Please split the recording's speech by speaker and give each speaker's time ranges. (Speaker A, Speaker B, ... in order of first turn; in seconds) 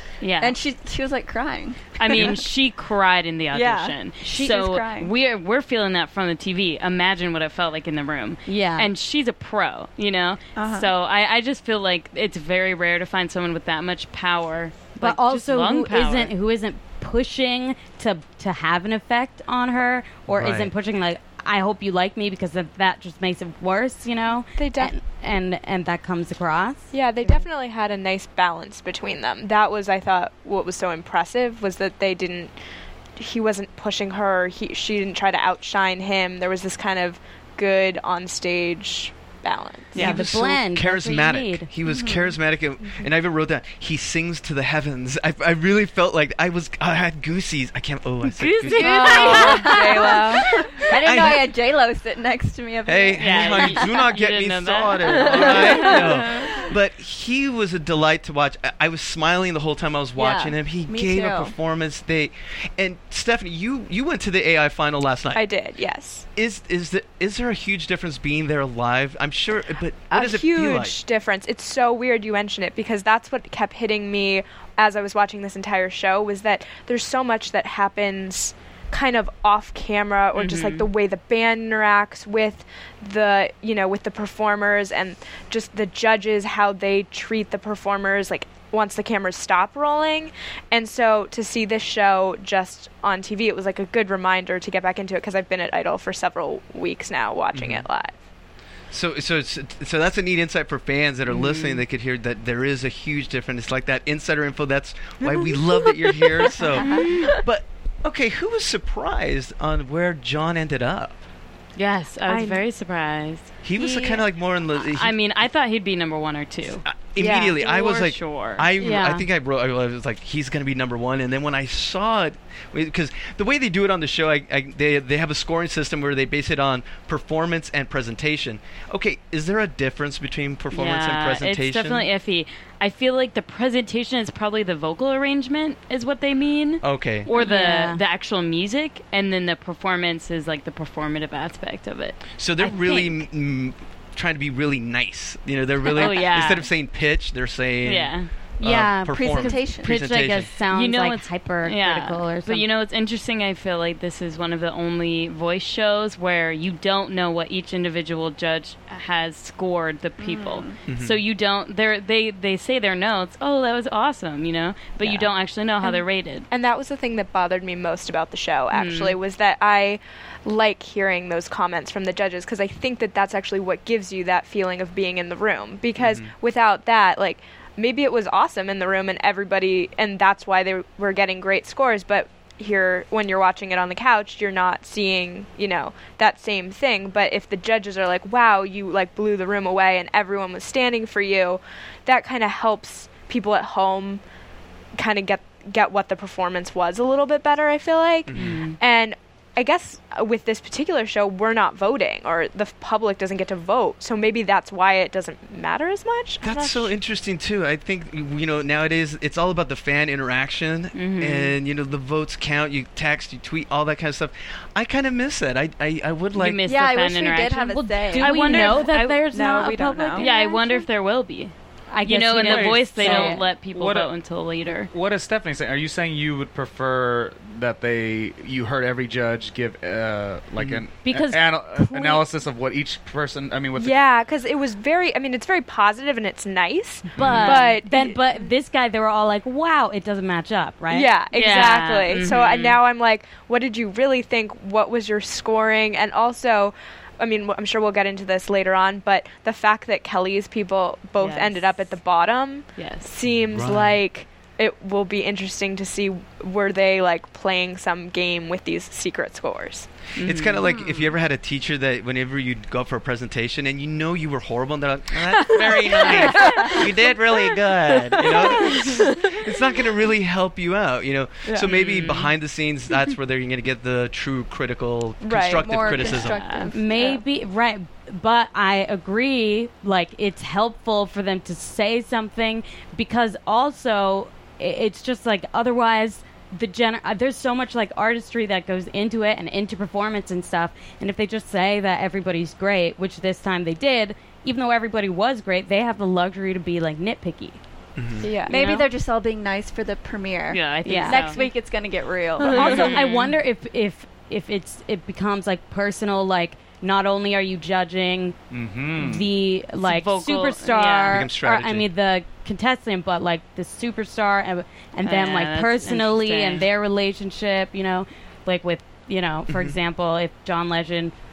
Speaker A: 0.2-0.6, 2.0-16.3, 39.9-40.3, 48.3-50.2, 53.2-56.5, 80.3-80.9, 101.3-101.8, 106.8-107.3, 111.8-114.2, 114.8-118.7, 130.7-143.1, 145.9-146.7, 147.8-148.3, 150.7-166.5, 168.7-169.2, 198.4-198.8, 210.9-211.5, 216.3-219.3, 220.2-221.5, 222.1-224.9, 237.2-237.8, 241.3-242.8, 251.2-251.9, 252.8-253.1, 260.2-260.8, 271.6-272.3, 276.2-276.7, 300.5-301.5, 302.5-303.4, 309.8-311.2, 315.0-316.7
Speaker B: 0.4-2.4, 3.5-5.1, 10.6-10.9, 41.9-42.4, 48.7-54.0, 55.1-56.7, 60.2-61.5, 149.1-150.0, 160.2-160.8, 216.7-220.7, 260.7-261.1, 275.8-277.2, 298.3-302.9
Speaker C: 4.2-4.5, 8.5-8.9, 15.0-27.4, 40.0-41.7, 49.2-49.6, 118.8-119.3, 137.3-138.0, 148.6-152.7, 217.7-220.5, 221.9-223.4, 231.1-232.2, 237.2-241.7, 275.7-297.6, 300.9-301.3, 302.5-308.4, 309.0-321.1
Speaker D: 20.3-20.7, 40.0-49.7, 50.6-51.5, 52.9-65.4, 66.4-71.0, 97.5-97.9, 98.9-111.2, 113.6-115.2, 116.8-132.1, 136.8-137.3, 142.4-150.5, 160.9-161.2, 176.0-176.3, 198.3-198.6, 206.4-216.6, 230.6-230.8, 253.3-254.0, 260.2-276.4, 298.0-298.3, 311.1-311.9, 319.5-319.8
Speaker E: 24.6-24.9, 26.9-32.5, 33.2-40.1, 65.3-66.3, 70.1-98.2, 165.8-194.2, 195.0-206.9, 233.8-238.2, 240.9-259.9, 265.9-266.8, 268.1-269.4, 275.2-277.2, 298.2-298.5, 302.4-302.8
Speaker F: 222.4-224.1, 224.9-234.0, 308.5-309.3